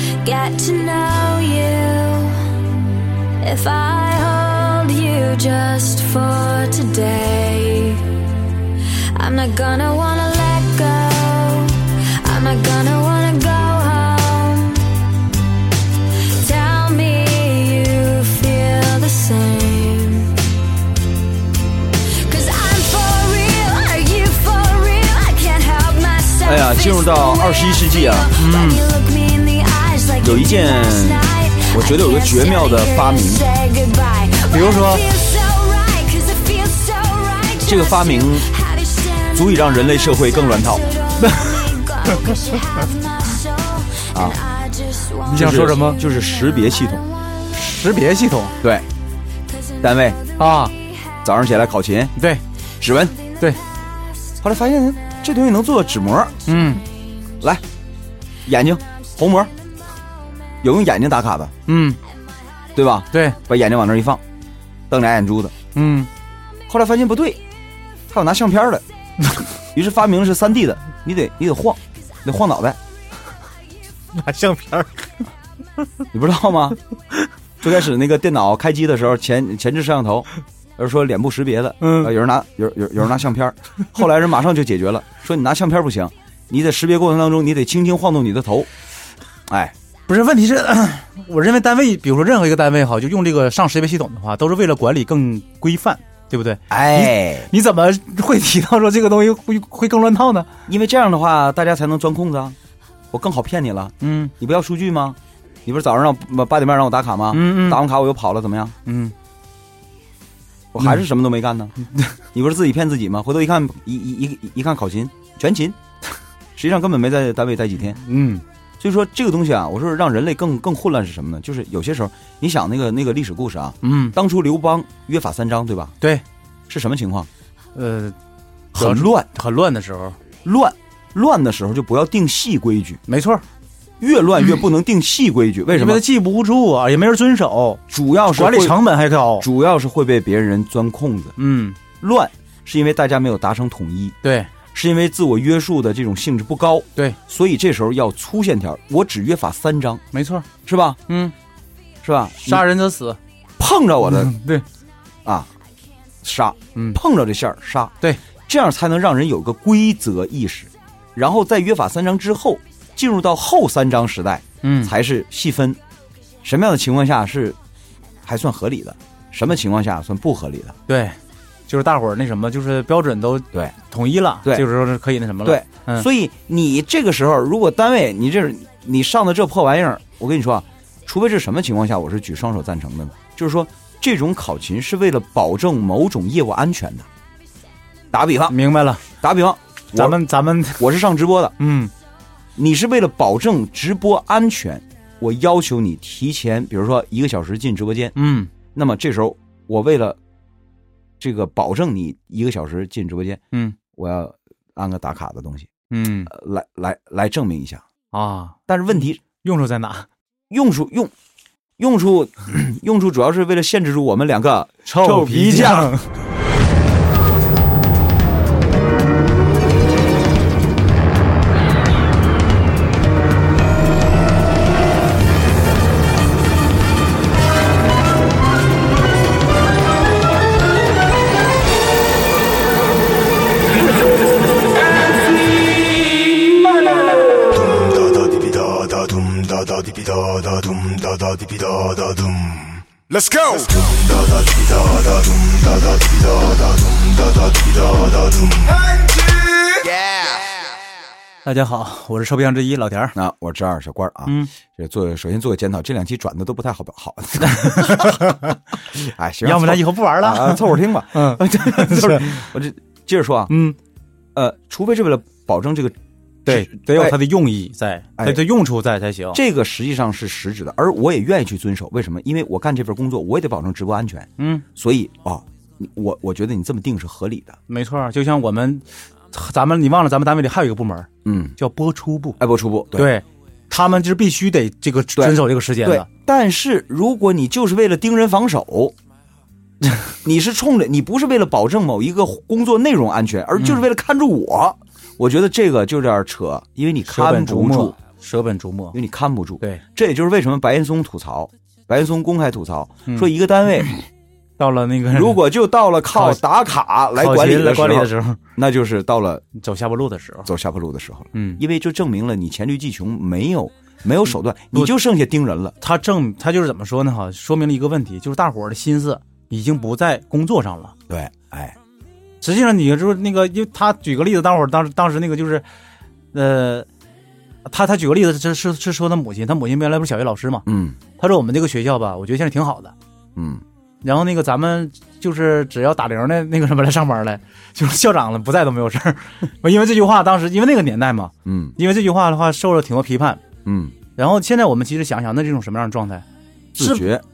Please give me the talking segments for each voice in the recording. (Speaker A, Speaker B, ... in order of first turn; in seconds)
Speaker A: 0.2-2.4, 3.4-8.2, 9.1-15.0, 16.1-20.4, 22.0-47.6, 49.5-51.2, 53.1-54.4, 56.5-56.8
Speaker B: 26.4-28.3, 30.2-33.4, 37.6-38.5, 39.3-40.9, 44.1-44.4, 45.3-47.0, 48.6-48.9, 49.8-50.2, 51.2-52.1, 52.8-53.2, 54.4-56.4, 58.5-59.5, 60.6-61.5, 62.7-64.2, 64.9-65.5, 66.7-67.4, 68.1-68.8, 69.6-72.8, 76.1-76.8, 77.6-88.7, 89.5-89.7, 96.7-97.5, 100.7-102.6, 103.1-108.8, 110.7-111.7, 112.3-115.8, 116.5-118.0, 118.8-126.0, 126.7-127.3, 128.7-129.3, 130.4-133.0, 134.0-136.0, 137.9-138.8, 139.4-141.3, 142.0-144.2, 144.7-150.0, 150.6-151.0, 152.0-152.7, 153.6-154.3, 155.2-155.5, 156.2-157.9, 158.5-165.8, 166.4-167.6, 168.2-170.8, 175.4-187.1, 188.1-188.6, 189.2-190.2, 190.8-191.5, 192.6-198.2, 198.7-200.2, 201.2-203.4, 203.9-205.7, 206.3-207.8, 208.7-209.2, 210.5-211.1, 211.8-215.9, 253.1-258.3, 258.9-263.5, 264.3-267.2, 268.2-268.4, 269.3-277.6, 281.2-281.6, 282.4-283.1, 285.1-288.9, 290.2-297.9, 298.9-303.9, 305.1-309.4, 310.4-315.7, 321.1-321.8, 330.6-331.0, 333.4-333.6, 341.4-341.8, 343.6-343.9, 346.7-347.2
Speaker C: 28.4-28.8, 34.5-35.0, 41.2-41.5, 45.3-46.0, 47.5-48.6, 50.4-50.7, 52.2-52.4, 56.5-56.8, 61.7-62.0, 63.1-63.4, 65.7-66.1, 74.1-75.2, 81.8-82.1, 90.1-100.5, 104.0-104.3, 107.3-107.8, 108.8-109.1, 118.0-118.4, 123.8-124.2, 127.7-128.2, 128.8-130.2, 133.1-133.4, 135.7-139.5, 141.4-141.8, 144.2-144.5, 150.1-150.5, 151.1-151.3, 152.4-153.2, 154.0-154.6, 156.7-157.0, 164.6-164.9, 170.9-176.1, 188.5-189.0, 189.9-190.8, 191.6-191.9, 198.2-198.5, 205.9-206.3, 208.1-208.6, 209.4-210.1, 214.8-216.1, 251.4-253.2, 257.4-258.6, 259.4-262.5, 263.5-263.8, 266.4-269.4, 274.4-274.6, 277.7-282.4, 282.9-286.1, 293.6-293.8, 297.1-298.9, 304.6-305.4, 306.1-306.4, 307.2-308.4, 309.5-310.5, 311.3-311.6, 315.8-320.9, 322.4-325.6, 326.3-326.9, 327.6-330.6, 331.2-332.9, 334.0-343.4, 344.1-346.2, 346.8-347.1
Speaker D: 237.5-250.5